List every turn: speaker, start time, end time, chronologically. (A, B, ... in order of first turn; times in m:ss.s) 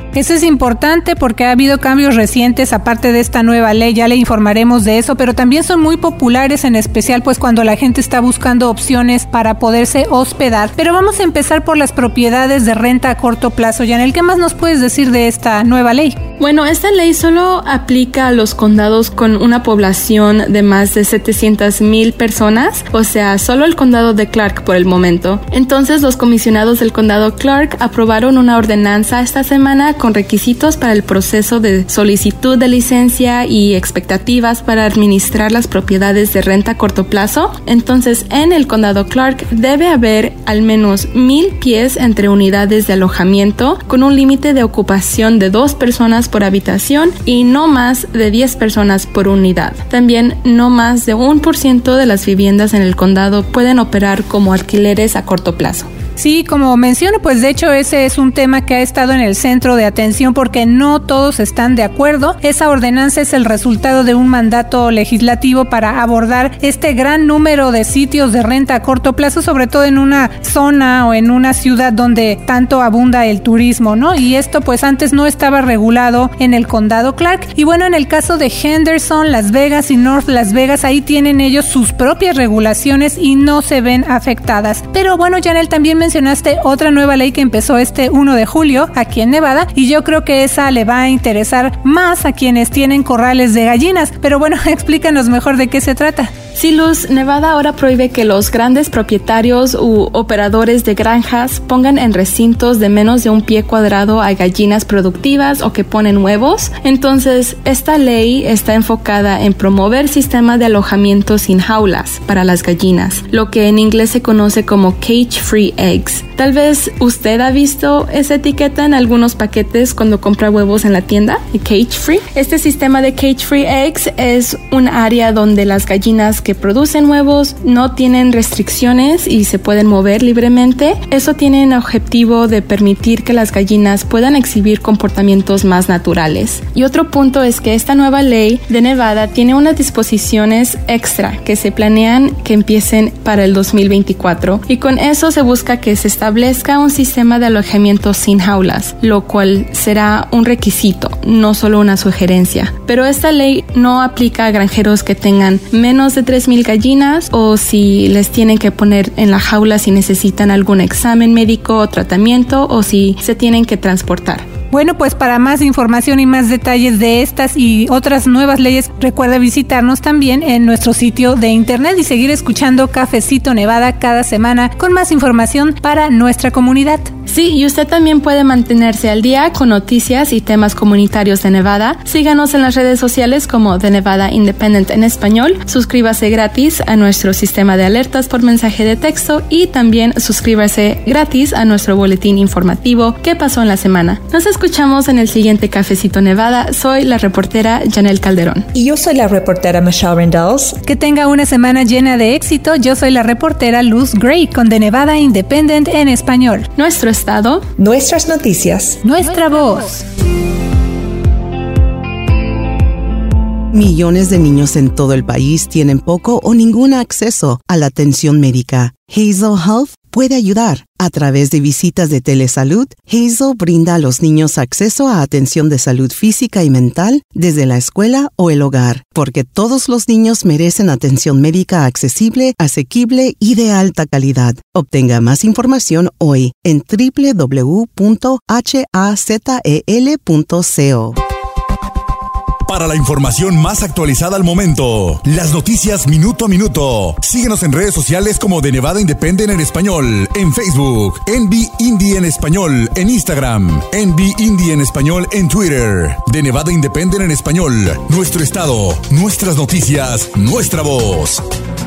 0:00.1-0:16.2 A
0:16.4-0:55.9 B
0:56.2-1:36.3 A
1:36.5-2:44.4 B
2:44.7-2:57.1 A
2:57.3-3:18.7 B
3:18.7-3:20.8 C
3:20.8-3:26.7 A
3:26.8-3:27.6 B
3:27.8-3:29.0 C
3:29.0-3:30.0 A
3:33.7-4:01.2 D
4:02.6-4:21.4 E